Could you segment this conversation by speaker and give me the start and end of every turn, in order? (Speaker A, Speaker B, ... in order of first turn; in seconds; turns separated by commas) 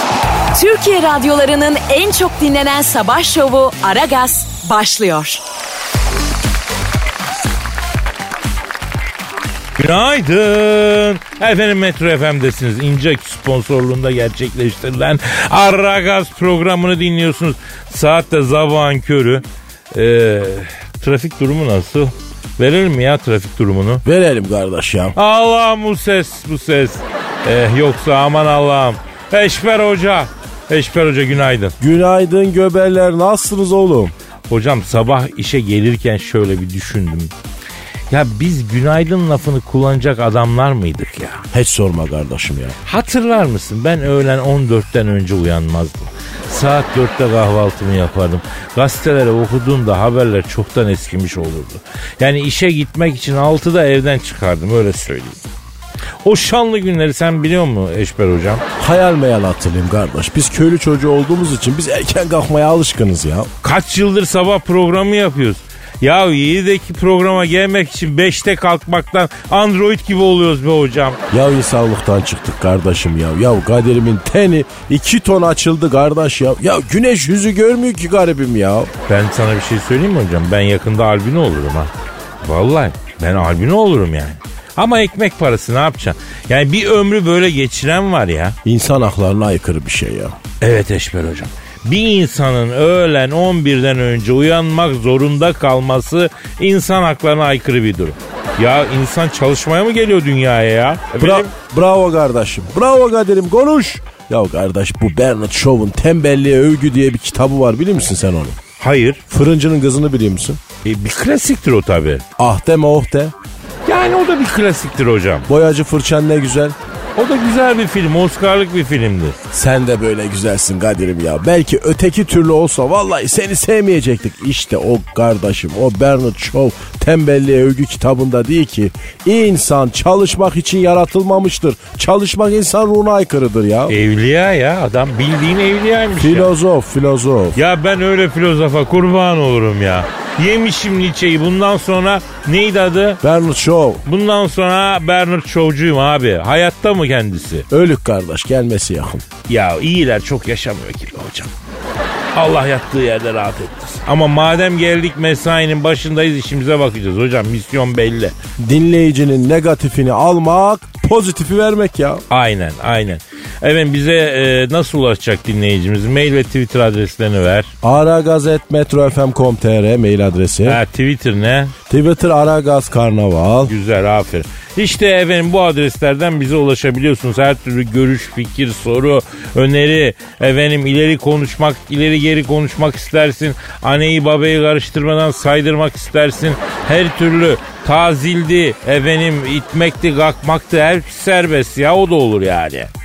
Speaker A: 0.5-5.4, Speaker B: 9.8-24.0, Speaker C: 24.0-25.1, Speaker B: 25.1-31.7, Speaker C: 31.8-34.1, Speaker B: 34.5-37.3, Speaker B: 38.1-41.4, Speaker C: 41.5-42.8, Speaker B: 42.8-55.4, Speaker B: 56.2-58.6, Speaker C: 58.8-63.5, Speaker B: 63.6-71.2, Speaker C: 71.3-78.9, Speaker B: 79.1-81.9, Speaker B: 82.4-88.5, Speaker C: 88.6-90.4, Speaker B: 90.6-101.5, Speaker C: 101.2-108.6, Speaker B: 108.8-109.2, Speaker C: 109.3-110.6, Speaker B: 110.8-112.2, Speaker C: 112.4-113.3, Speaker B: 113.8-115.5, Speaker C: 115.5-116.8, Speaker B: 117.2-119.4, Speaker C: 119.5-133.9, Speaker B: 133.9-136.5, Speaker C: 136.1-137.6, Speaker B: 137.5-143.2, Speaker C: 143.2-144.0, Speaker B: 144.1-147.7, Speaker C: 147.7-149.2, Speaker B: 149.5-151.5, Speaker B: 152.3-158.3, Speaker C: 158.6-162.2, Speaker B: 162.3-167.7, Speaker C: 167.8-170.8, Speaker B: 170.6-171.7, Speaker C: 171.9-173.7, Speaker B: 173.7-192.9